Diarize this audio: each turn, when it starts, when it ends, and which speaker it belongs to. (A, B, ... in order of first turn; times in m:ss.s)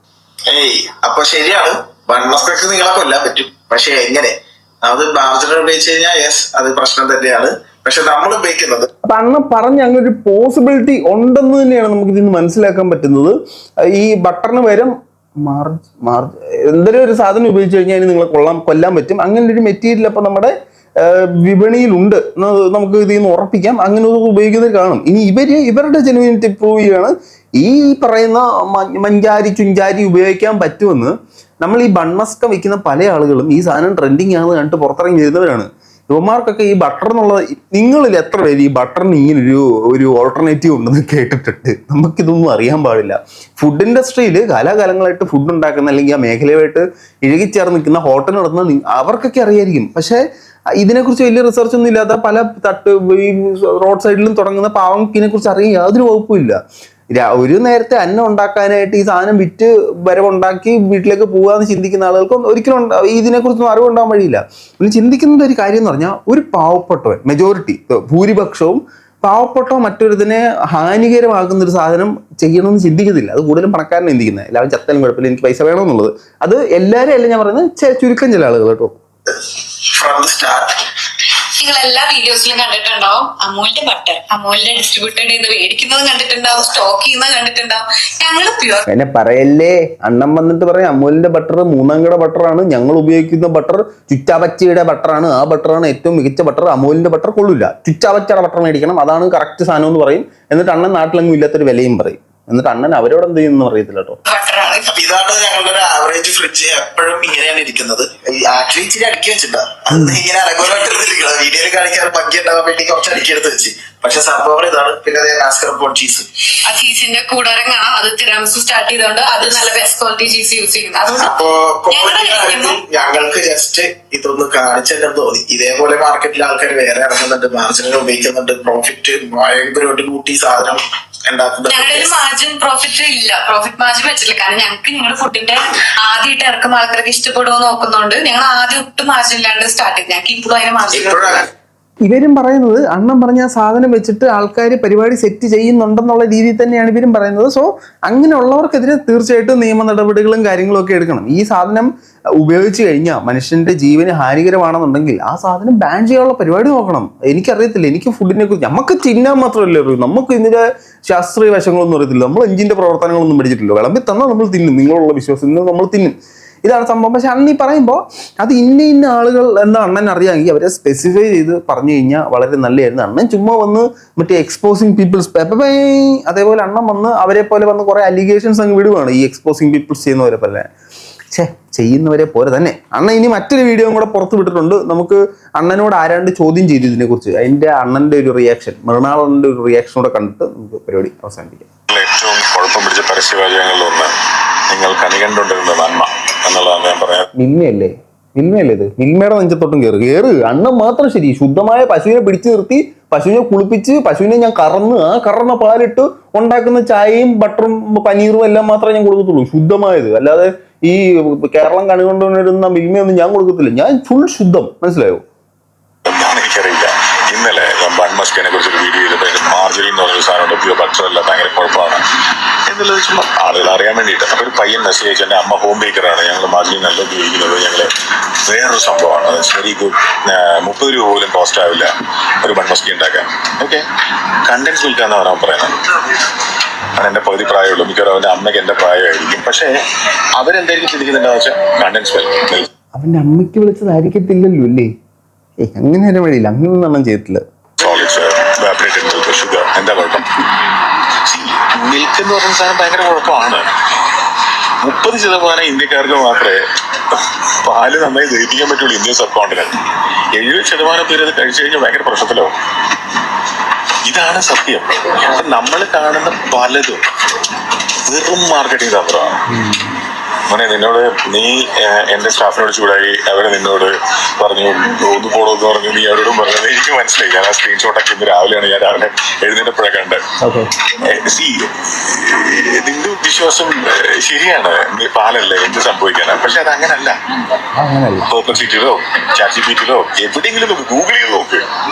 0:00.5-0:08.9 A
0:09.0-0:50.2 B
0:50.8-0:56.6 B
0:57.1-1:18.9 B
1:19.3-1:20.8 A
1:21.6-1:28.8 C
1:28.9-1:44.2 B
1:44.3-1:44.9 C
1:44.8-1:56.3 A
1:49.9-1:50.2 B
1:56.6-2:01.4 C
2:01.2-2:12.1 A
2:01.9-2:03.0 C
2:11.6-2:21.4 C
2:20.9-2:21.4 A
2:22.0-2:46.1 B
2:46.6-3:00.7 B
3:01.3-3:11.7 B
3:11.9-3:14.1 D
3:14.7-3:17.3 D
3:17.4-3:35.2 B
3:36.1-3:42.0 D
3:42.7-3:47.9 D
3:48.4-3:51.9 D
3:52.4-3:53.8 D
3:54.5-3:55.8 D
3:57.0-3:59.7 D
4:00.4-4:02.7 D
4:03.0-4:04.9 B
4:05.6-4:07.4 B
4:07.8-4:10.3 D
4:11.3-4:13.7 D
4:14.8-4:19.7 D
4:20.4-4:22.5 D
4:24.0-4:27.0 D
4:28.0-4:29.4 D
4:29.5-4:29.9 B
4:30.5-4:40.2 D
4:40.4-4:40.7 B
4:41.0-4:47.2 D
4:47.8-4:48.3 B
4:48.2-4:51.7 D